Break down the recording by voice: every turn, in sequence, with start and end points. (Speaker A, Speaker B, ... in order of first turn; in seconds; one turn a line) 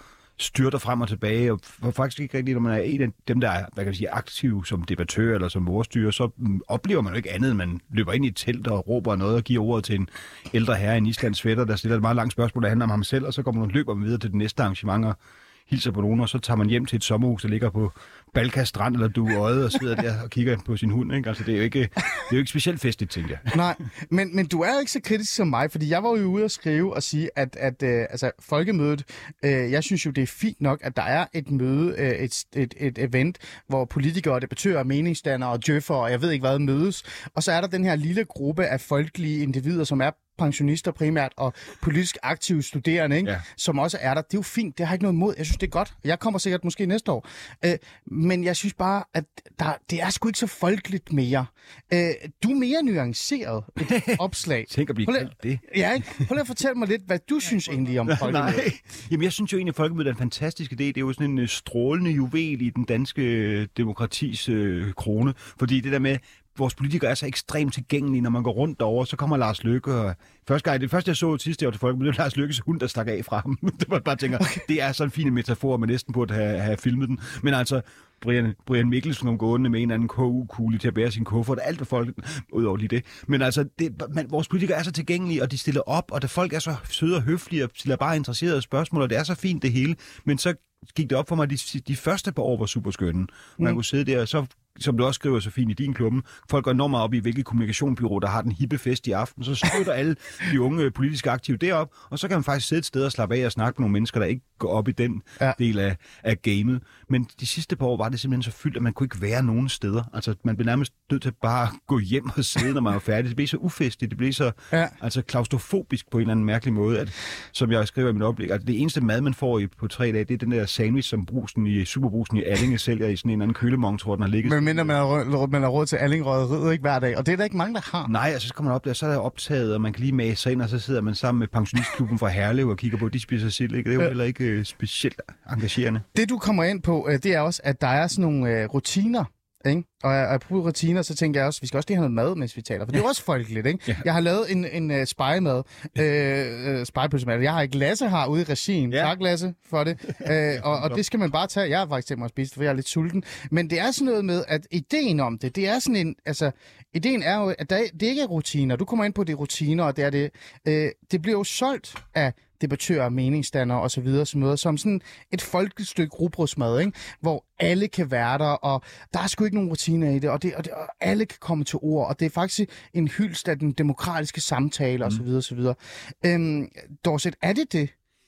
Speaker A: 0.4-15.2
Speaker A: 15.7-23.5
Speaker B: 23.5-58.6
Speaker A: 53.8-55.6
Speaker A: 58.1-125.0
Speaker B: 124.4-128.1
Speaker A: 128.1-136.1
Speaker B: 136.1-177.9
Speaker A: 150.5-151.0